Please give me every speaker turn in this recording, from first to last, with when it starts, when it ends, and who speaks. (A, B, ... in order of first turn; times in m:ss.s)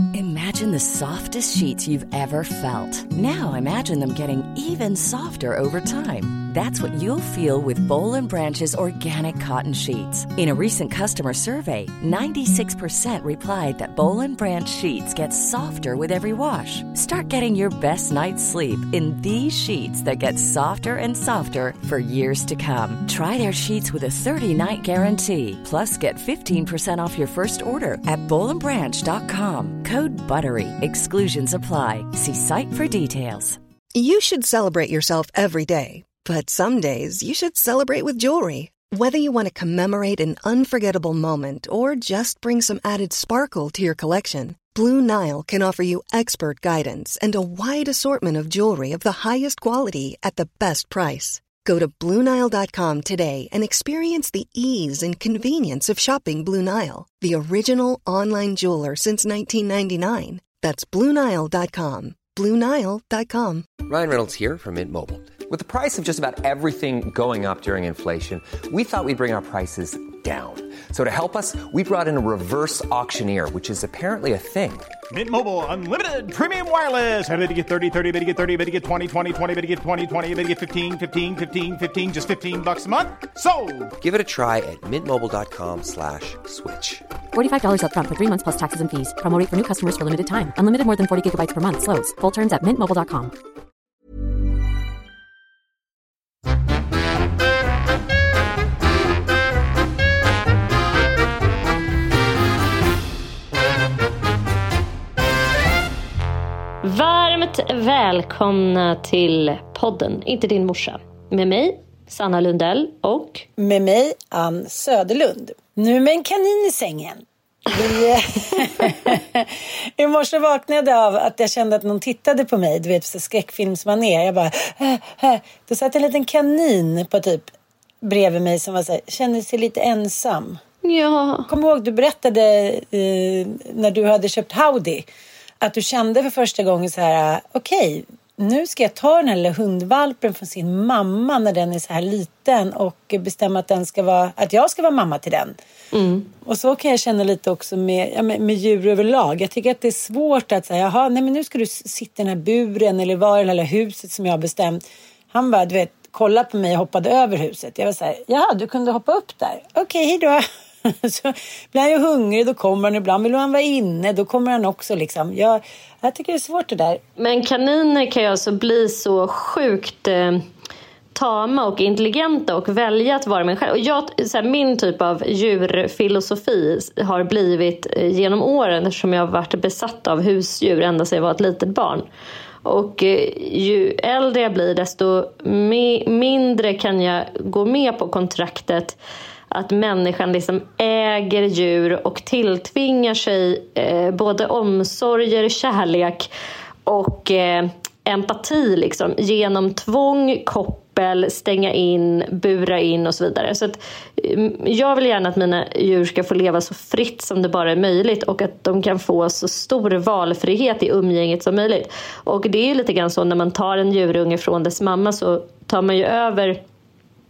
0:00.1-0:33.6 A
0:33.9-1:03.7 B
1:03.8-1:14.9 C
1:15.1-1:23.9 D
1:24.0-1:27.0 C
1:27.3-1:33.3 E
1:46.8-1:53.4 F
1:53.6-2:07.5 G
2:08.0-2:10.6 G
2:10.8-2:11.5 F
2:11.5-2:15.0 G
2:15.6-2:25.6 G
2:25.9-2:26.3 F
2:26.4-2:47.0 G
2:47.2-2:50.4 F
2:51.1-3:02.0 F
3:02.6-3:09.0 F
3:09.5-3:16.3 F
3:16.8-3:36.6 F